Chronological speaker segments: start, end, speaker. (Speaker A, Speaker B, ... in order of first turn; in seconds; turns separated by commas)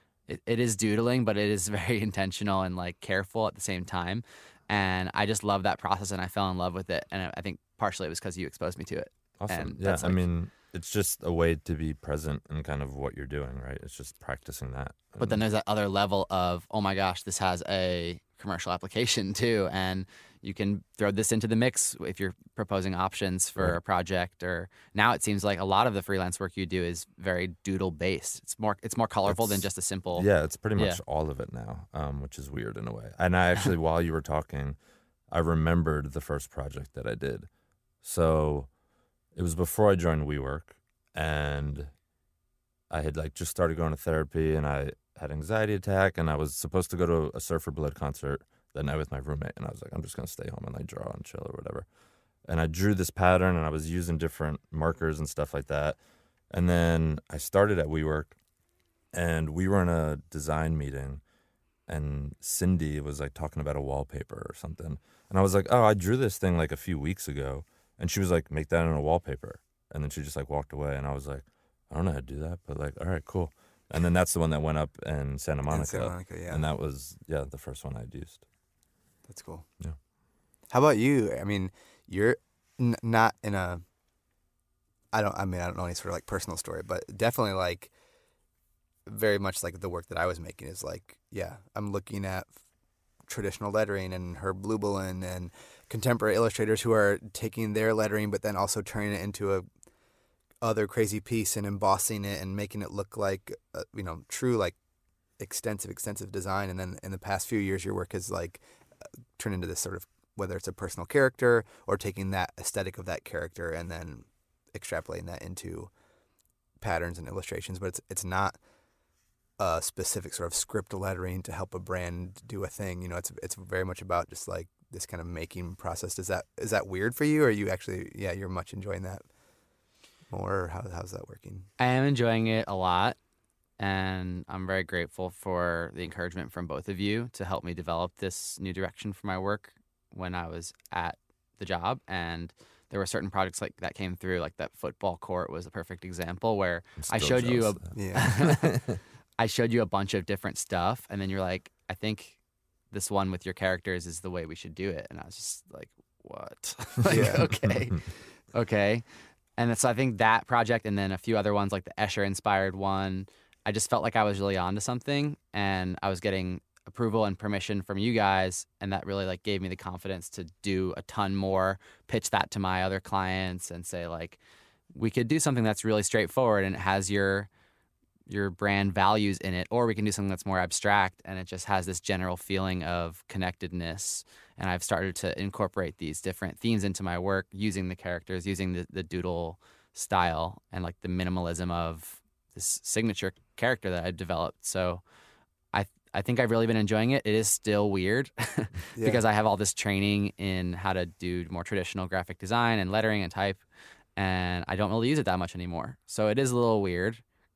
Speaker A: 0.3-10.2, Speaker B: 9.4-15.4, Speaker A: 15.2-30.2, Speaker B: 29.2-34.8, Speaker A: 30.8-31.0, Speaker B: 35.3-37.5, Speaker B: 38.0-38.7, Speaker B: 39.3-41.9, Speaker B: 42.9-51.9, Speaker B: 52.5-56.0, Speaker B: 56.5-58.4, Speaker B: 59.1-61.2, Speaker B: 61.9-78.4, Speaker C: 75.7-76.7, Speaker C: 79.3-79.7, Speaker C: 80.7-83.8, Speaker C: 85.1-87.9, Speaker C: 89.0-92.6, Speaker C: 93.3-99.7, Speaker C: 100.6-104.8, Speaker C: 105.4-108.6, Speaker C: 109.4-115.9, Speaker C: 116.8-118.6, Speaker C: 119.6-129.2, Speaker C: 130.3-131.7, Speaker A: 131.8-133.2, Speaker A: 133.8-148.8, Speaker B: 147.0-148.8, Speaker C: 147.9-148.3, Speaker A: 149.4-152.4, Speaker A: 152.9-159.1, Speaker C: 157.1-157.5, Speaker A: 159.6-174.4, Speaker A: 174.9-177.5, Speaker A: 178.3-195.0, Speaker A: 195.7-203.6, Speaker C: 198.9-199.2, Speaker A: 204.2-207.2